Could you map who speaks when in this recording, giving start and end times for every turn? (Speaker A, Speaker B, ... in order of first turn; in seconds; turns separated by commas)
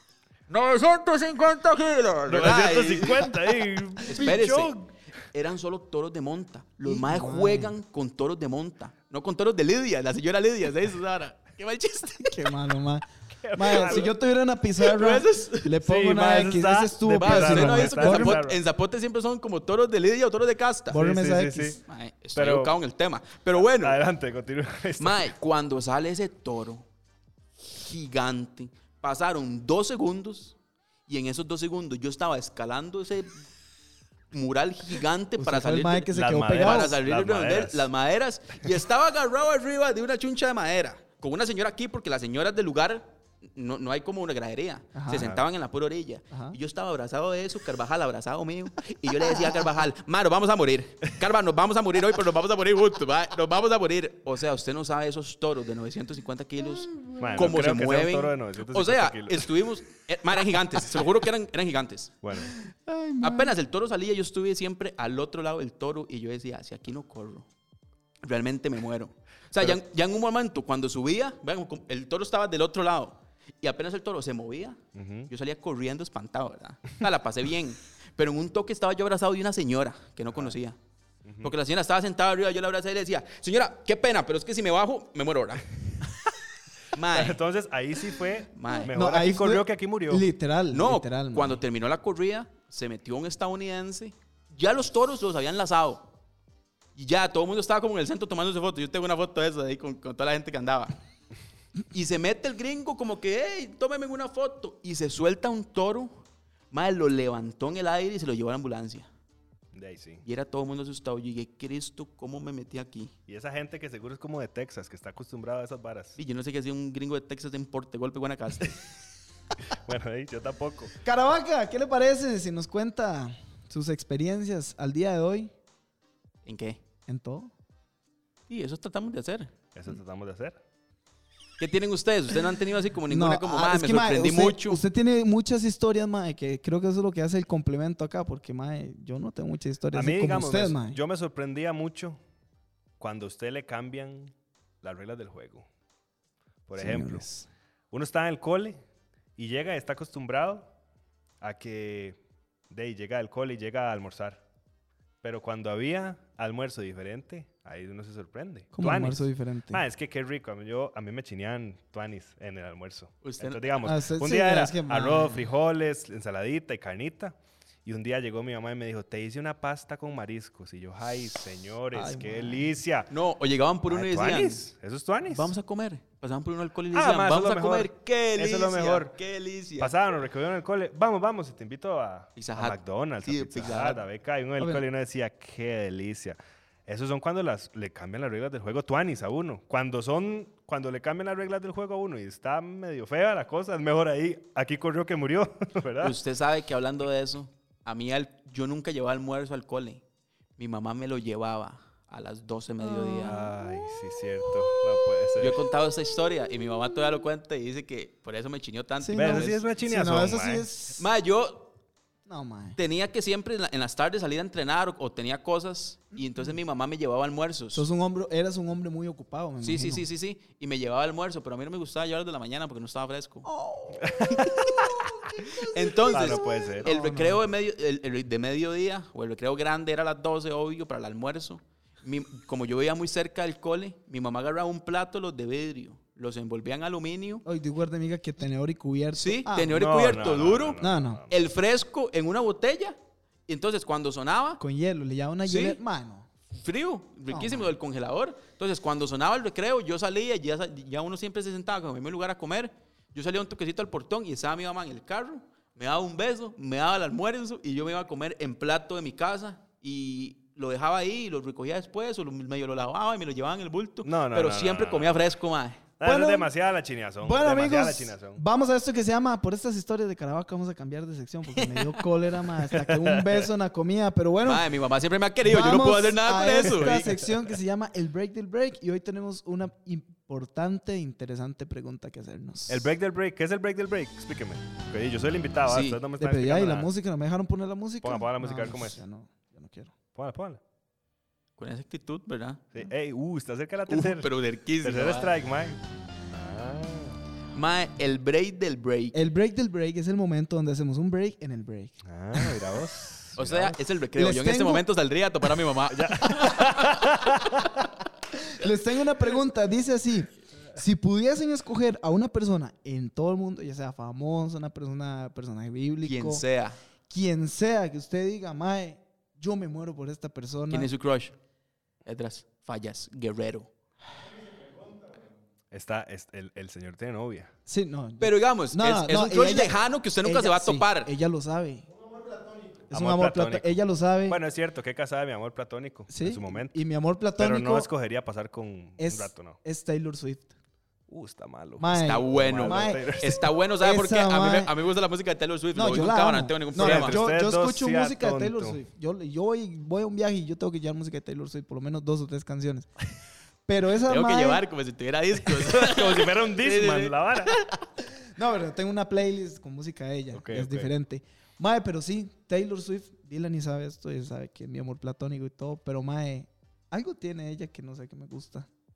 Speaker A: 0.5-3.3, Speaker B: 2.3-4.8, Speaker A: 4.0-12.5, Speaker C: 6.8-7.7, Speaker C: 12.2-18.4, Speaker B: 13.4-14.1, Speaker A: 13.7-14.0, Speaker A: 14.8-15.7, Speaker B: 15.8-18.6, Speaker A: 17.2-21.0, Speaker C: 20.9-21.8, Speaker B: 20.9-21.8, Speaker A: 21.8-24.0, Speaker B: 22.3-22.8, Speaker B: 23.5-25.3, Speaker A: 25.0-26.9, Speaker A: 27.6-30.6, Speaker A: 31.1-33.4, Speaker A: 34.3-62.1, Speaker C: 35.4-37.0, Speaker B: 36.1-37.9, Speaker C: 44.9-45.3, Speaker B: 45.1-45.4, Speaker C: 46.3-46.6, Speaker C: 56.9-57.2, Speaker B: 57.2-59.7, Speaker B: 62.2-62.5, Speaker C: 62.6-63.5, Speaker A: 63.2-67.5, Speaker A: 68.2-80.8, Speaker B: 74.9-75.3, Speaker B: 81.2-81.5, Speaker A: 81.4-85.7, Speaker A: 86.9-87.4, Speaker B: 87.1-90.3, Speaker A: 88.5-88.9, Speaker C: 88.8-91.6, Speaker A: 90.7-96.1, Speaker A: 97.0-100.9, Speaker A: 101.9-109.1, Speaker B: 109.7-110.2, Speaker A: 110.2-113.1, Speaker B: 113.3-116.2, Speaker A: 116.2-118.8, Speaker B: 119.7-120.9, Speaker C: 121.0-125.5, Speaker A: 126.5-126.8, Speaker C: 127.1-127.5, Speaker A: 128.5-129.5, Speaker B: 129.7-130.6, Speaker A: 131.6-134.8, Speaker C: 133.1-141.0, Speaker B: 139.9-142.2, Speaker B: 143.0-145.7, Speaker B: 146.7-147.3, Speaker C: 146.8-147.5, Speaker B: 147.9-148.8, Speaker B: 149.4-150.7, Speaker B: 151.4-152.2, Speaker B: 152.7-154.4, Speaker B: 155.2-173.1, Speaker C: 158.7-159.8, Speaker A: 163.2-163.6, Speaker C: 163.8-165.5, Speaker C: 171.9-172.7, Speaker A: 173.1-174.7, Speaker B: 173.9-175.5, Speaker A: 175.3-179.9, Speaker B: 176.9-179.2, Speaker B: 179.8-196.2, Speaker A: 182.3-184.0, Speaker C: 184.6-184.8, Speaker A: 196.0-200.0, Speaker A: 200.6-203.4, Speaker C: 202.8-203.5, Speaker B: 203.2-205.6, Speaker A: 205.4-209.6, Speaker C: 209.0-211.0, Speaker B: 209.1-210.7, Speaker A: 211.0-211.7, Speaker C: 212.3-212.8, Speaker A: 212.8-217.8, Speaker C: 216.2-216.5, Speaker C: 217.7-220.1, Speaker A: 219.6-223.5, Speaker C: 223.4-225.2, Speaker B: 224.0-224.8, Speaker A: 225.5-237.4, Speaker B: 226.1-226.9, Speaker C: 226.8-227.4, Speaker C: 237.4-239.8, Speaker A: 239.2-244.6, Speaker B: 239.7-241.4, Speaker C: 240.8-241.2, Speaker C: 244.6-246.3, Speaker A: 245.4-245.8, Speaker A: 246.5-265.8, Speaker C: 247.3-247.7, Speaker B: 264.0-265.2, Speaker B: 266.0-268.4, Speaker C: 266.0-266.5, Speaker C: 267.2-274.7, Speaker A: 271.5-272.0, Speaker B: 272.7-273.5, Speaker A: 274.4-277.1, Speaker C: 275.4-282.9, Speaker B: 276.8-277.5, Speaker B: 282.7-286.9, Speaker A: 285.7-286.0, Speaker C: 286.2-289.9, Speaker B: 288.0-289.0, Speaker B: 290.1-290.6, Speaker A: 291.6-292.6, Speaker B: 292.7-297.2, Speaker A: 293.9-295.3, Speaker A: 297.5-299.2, Speaker C: 299.1-302.6, Speaker B: 302.0-303.8, Speaker A: 303.4-307.1, Speaker C: 304.1-304.8, Speaker B: 305.9-307.9, Speaker C: 306.3-306.6, Speaker C: 308.3-316.4, Speaker A: 316.0-316.8, Speaker C: 317.1-320.9, Speaker A: 320.7-321.4, Speaker A: 322.0-323.7, Speaker B: 325.7-327.5, Speaker C: 327.7-331.9, Speaker A: 328.2-331.1, Speaker C: 332.9-334.4, Speaker B: 332.9-336.8, Speaker C: 336.1-337.9, Speaker B: 337.4-339.6, Speaker C: 339.0-340.5, Speaker B: 341.1-343.4, Speaker C: 341.8-344.7, Speaker A: 341.9-347.2, Speaker C: 345.7-352.9, Speaker B: 346.8-348.8, Speaker C: 353.6-354.6, Speaker A: 354.0-357.8, Speaker B: 355.5-357.5, Speaker C: 358.3-368.7, Speaker B: 360.3-360.9